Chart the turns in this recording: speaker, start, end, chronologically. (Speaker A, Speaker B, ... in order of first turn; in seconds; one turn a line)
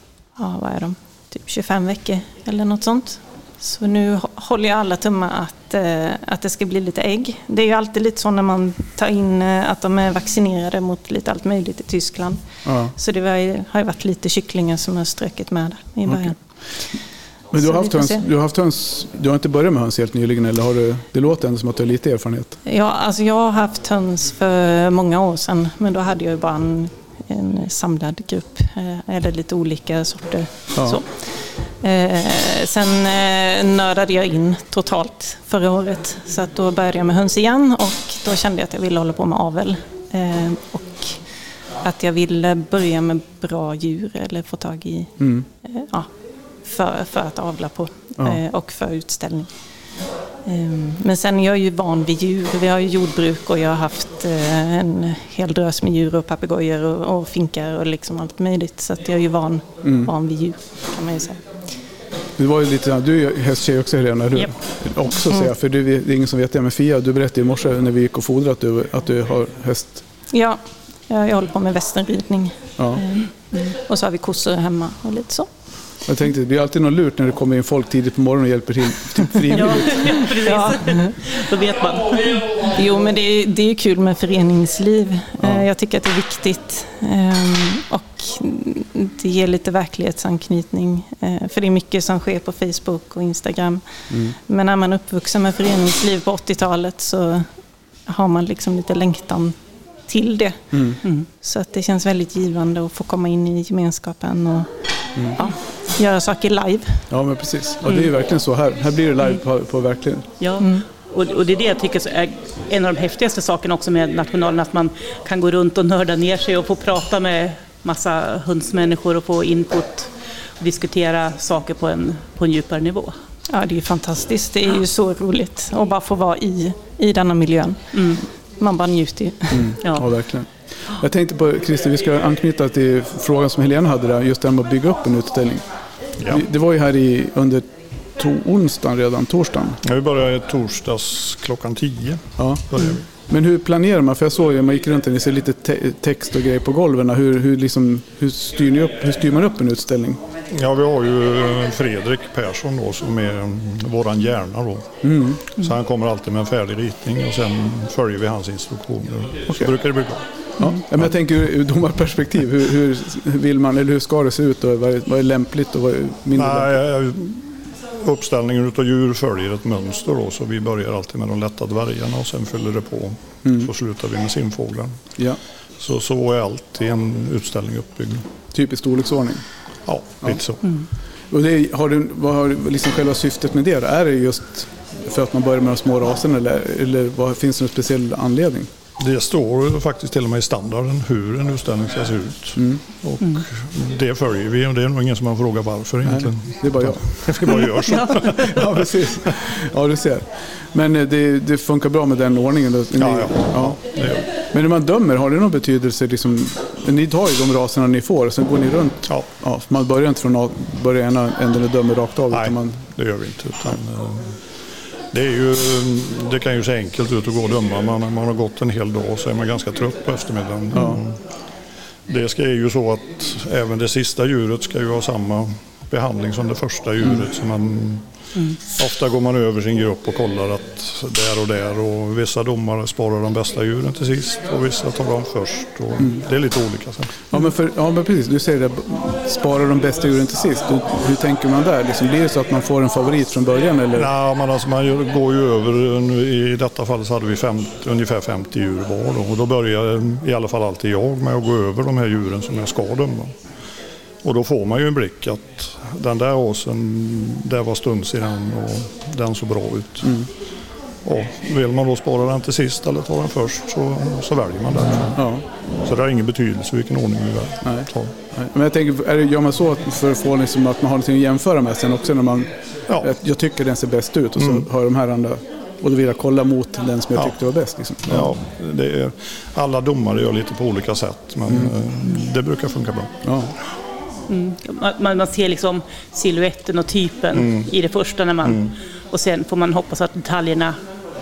Speaker A: 0.3-16.4
Speaker B: 12.7-12.9
Speaker B: 17.5-22.6
Speaker A: 17.6-18.2
Speaker A: 22.6-31.0
Speaker B: 30.8-31.0
Speaker A: 31.8-41.2
Speaker A: 41.8-46.1
Speaker B: 45.2-45.4
Speaker A: 46.6-49.5
Speaker A: 50.5-61.4
Speaker B: 59.8-60.1
Speaker B: 62.4-70.0
Speaker A: 70.3-75.5
Speaker B: 76.1-80.2
Speaker C: 79.5-82.4
Speaker A: 80.2-81.1
Speaker A: 82.5-97.5
Speaker A: 98.1-99.5
Speaker A: 100.1-104.7
Speaker B: 100.7-101.0
Speaker A: 105.3-107.0
Speaker B: 107.1-110.3
Speaker C: 110.4-123.1
Speaker A: 123.5-129.8
Speaker B: 129.5-135.6
Speaker B: 136.3-139.8
Speaker D: 139.8-143.0
Speaker B: 142.4-150.2
Speaker D: 150.5-160.2
Speaker B: 155.0-155.4
Speaker B: 160.6-166.7
Speaker D: 166.3-167.5
Speaker D: 168.0-175.0
Speaker B: 173.4-173.7
Speaker D: 175.8-178.3
Speaker B: 178.5-179.4
Speaker D: 179.9-180.8
Speaker B: 181.3-188.7
Speaker D: 189.0-198.9
Speaker B: 196.0-203.8
Speaker D: 203.0-204.3
Speaker B: 204.5-212.8
Speaker D: 212.3-214.3
Speaker D: 215.1-221.2
Speaker B: 220.7-221.0
Speaker D: 222.1-237.2
Speaker B: 237.3-244.1
Speaker D: 243.9-253.3
Speaker D: 254.2-260.2
Speaker D: 261.0-265.2
Speaker B: 265.1-265.4
Speaker D: 265.8-268.1
Speaker B: 267.6-272.5
Speaker B: 273.0-278.3
Speaker D: 278.1-283.2
Speaker B: 283.2-283.5
Speaker C: 284.3-290.8
Speaker D: 287.3-287.7
Speaker D: 288.4-288.7